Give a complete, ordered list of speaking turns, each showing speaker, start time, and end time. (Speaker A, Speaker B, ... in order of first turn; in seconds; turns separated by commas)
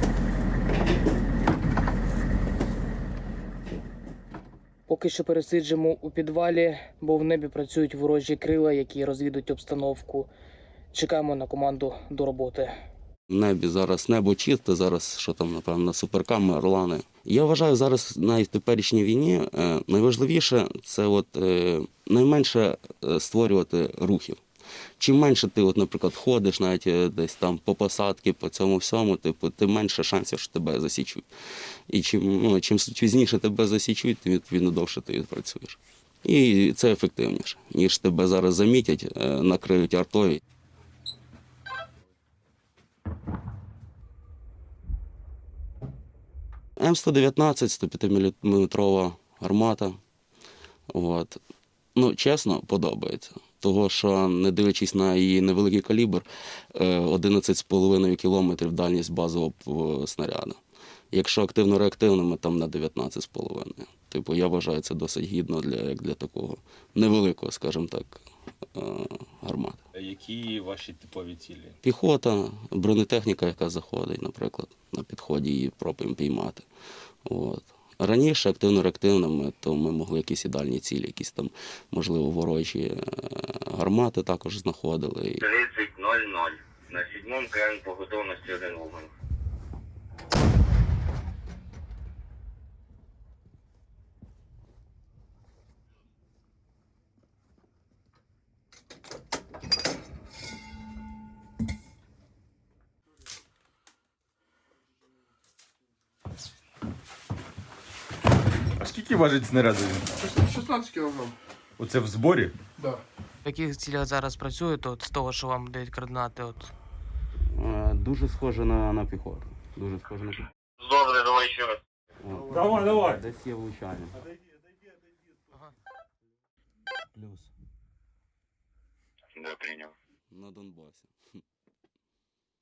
Speaker A: 4.9-10.3, Speaker A: 10.9-12.7, Speaker B: 13.3-24.4, Speaker B: 25.0-31.2, Speaker B: 31.9-40.4, Speaker B: 46.8-50.0, Speaker B: 50.9-51.4, Speaker B: 51.9-60.6, Speaker B: 61.1-69.8, Speaker C: 69.9-71.8, Speaker B: 71.8-76.6, Speaker B: 77.2-85.5, Speaker D: 85.4-89.1, Speaker C: 108.8-110.2, Speaker C: 111.8-112.5, Speaker A: 113.4-116.7, Speaker B: 117.5-120.4, Speaker D: 120.8-121.8, Speaker B: 122.2-124.2, Speaker D: 129.3-129.9, Speaker B: 130.3-131.1